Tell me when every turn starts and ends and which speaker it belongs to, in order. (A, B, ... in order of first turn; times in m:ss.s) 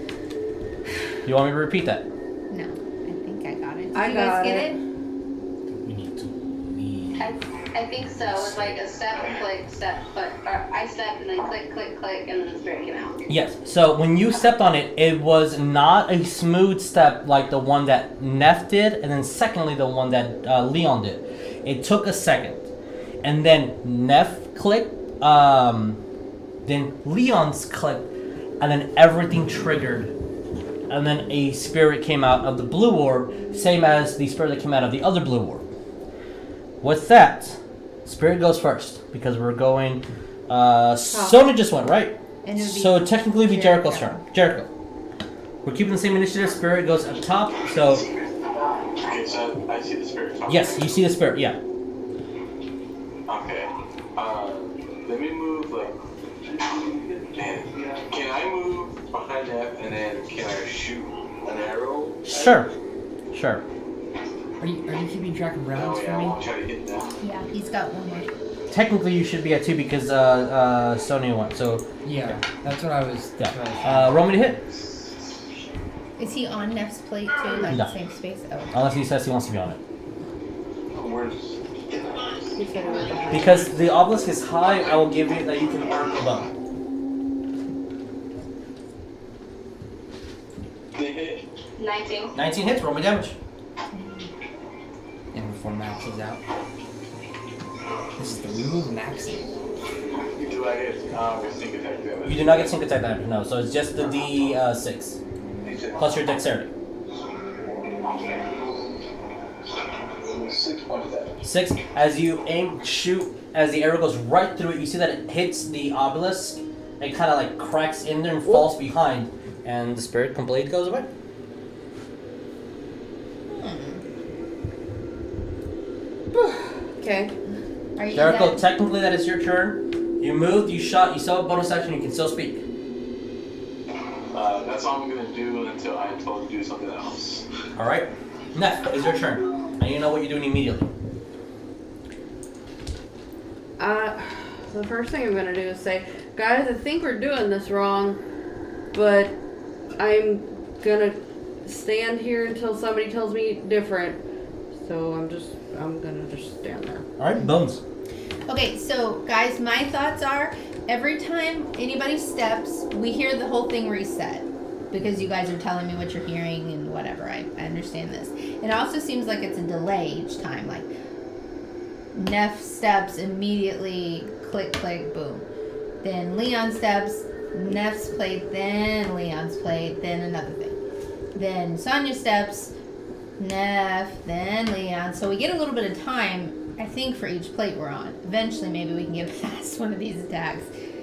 0:01.2-0:02.1 A
0:02.5-0:04.8 B
0:03.9-0:04.8 C
0:05.7-0:07.3 D
0:07.2-0:13.2 E
0:08.3-0:08.7 D
0:13.3-0:22.6 A
0:23.2-0:26.0 A
0:26.6-0:30.1 A
0:30.9-0:35.7 A
0:36.8-0:44.7 A
0:41.1-0:41.4 C
0:42.4-0:44.2 B
0:45.6-0:48.1 A
0:49.0-0:50.9 F
0:50.5-0:51.6 A
0:53.3-0:56.0 F
0:56.6-1:02.6 F
1:02.3-1:02.7 A
1:03.3-1:03.6 A
1:04.6-1:06.4 G
1:05.7-1:07.1 F
1:07.2-1:08.3 B
1:08.7-1:11.9 A
1:12.0-1:14.2 G
1:13.4-1:14.6 A
1:16.2-1:18.8 B
1:17.6-1:17.9 A
1:18.7-1:19.8 A
1:21.0-1:22.4 F
1:22.6-1:23.6 C
1:23.3-1:26.5 A
1:31.0-1:31.4 F
1:31.8-1:32.4 E
1:32.3-1:33.4 A
1:34.0-1:34.2 B
1:35.3-1:36.4 G
1:38.2-1:39.5 G
1:40.3-1:42.7 F
1:42.2-1:45.2 A
1:45.6-1:46.0 F
1:45.9-1:46.7 A
1:48.2-1:48.6 F
1:50.2-1:51.4 F
1:51.4-2:01.1 A
2:03.5-2:04.0 B
2:06.3-2:07.3 C
2:08.0-2:08.6 B
2:08.1-2:12.6 A
2:14.3-2:17.4 F
2:17.8-2:20.9 A
2:23.8-2:28.2 C
2:28.9-2:29.4 C
2:30.0-2:34.2 C
2:34.8-2:37.1 C
2:37.2-2:37.8 A
2:38.5-2:50.9 B
2:52.1-2:55.4 B
2:56.0-3:00.8 B
3:01.4-3:02.7 B
3:03.4-3:10.7 B